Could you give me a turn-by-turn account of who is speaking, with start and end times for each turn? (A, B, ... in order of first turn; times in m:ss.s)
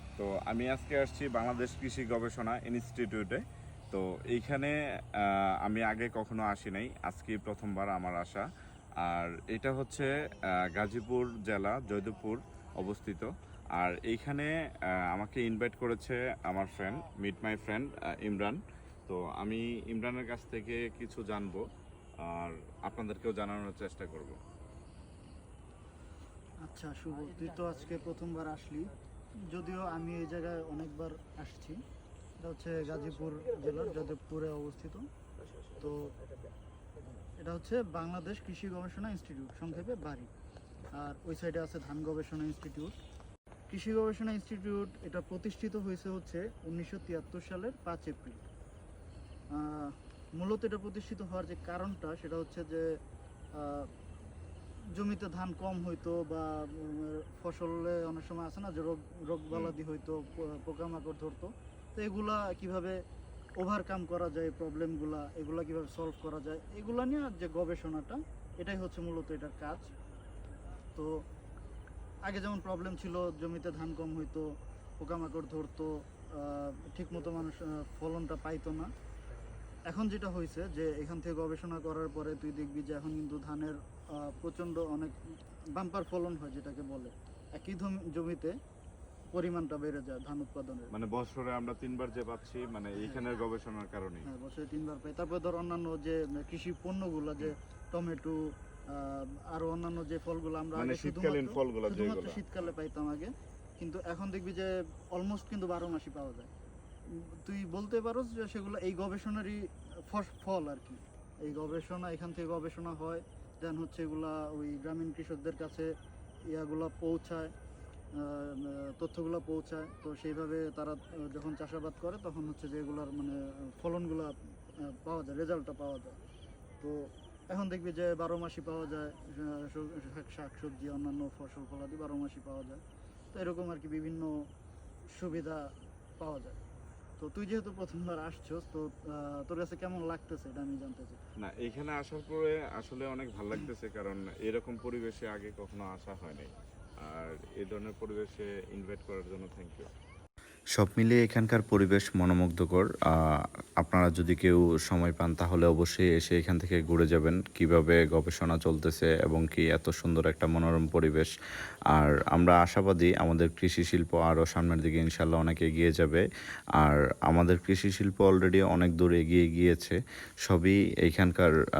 0:00.2-0:08.5 A
0:09.0-0:21.6 A
0:22.2-0:24.4 A
0:26.6-0:28.9 B
0:29.5-0:31.8 B
0:32.4-0:35.0 B
0:35.8-0:36.1 B
0:37.4-0:40.3 B
0:41.0-0:42.9 B
0:43.7-0:48.4 B
0:49.5-0:52.8 B
0:53.6-0:53.9 B
0:54.9-1:03.0 B
1:03.6-1:09.9 B
1:12.2-1:14.4 B
1:15.0-1:18.9 B
1:19.9-1:25.2 B
1:25.7-1:28.5 B
1:29.3-1:30.9 B
1:30.9-1:34.3 A
1:34.3-1:38.4 B
1:38.9-1:46.5 B
1:40.8-1:42.7 A
1:47.4-1:55.9 B
1:56.5-1:57.5 B
1:58.2-2:06.2 B
2:06.8-2:12.8 B
2:13.3-2:14.4 B
2:15.1-2:16.6 B
2:17.2-2:21.2 B
2:21.4-2:29.9 A
2:30.8-2:41.3 C
2:41.9-2:46.2 C
2:46.8-2:51.5 C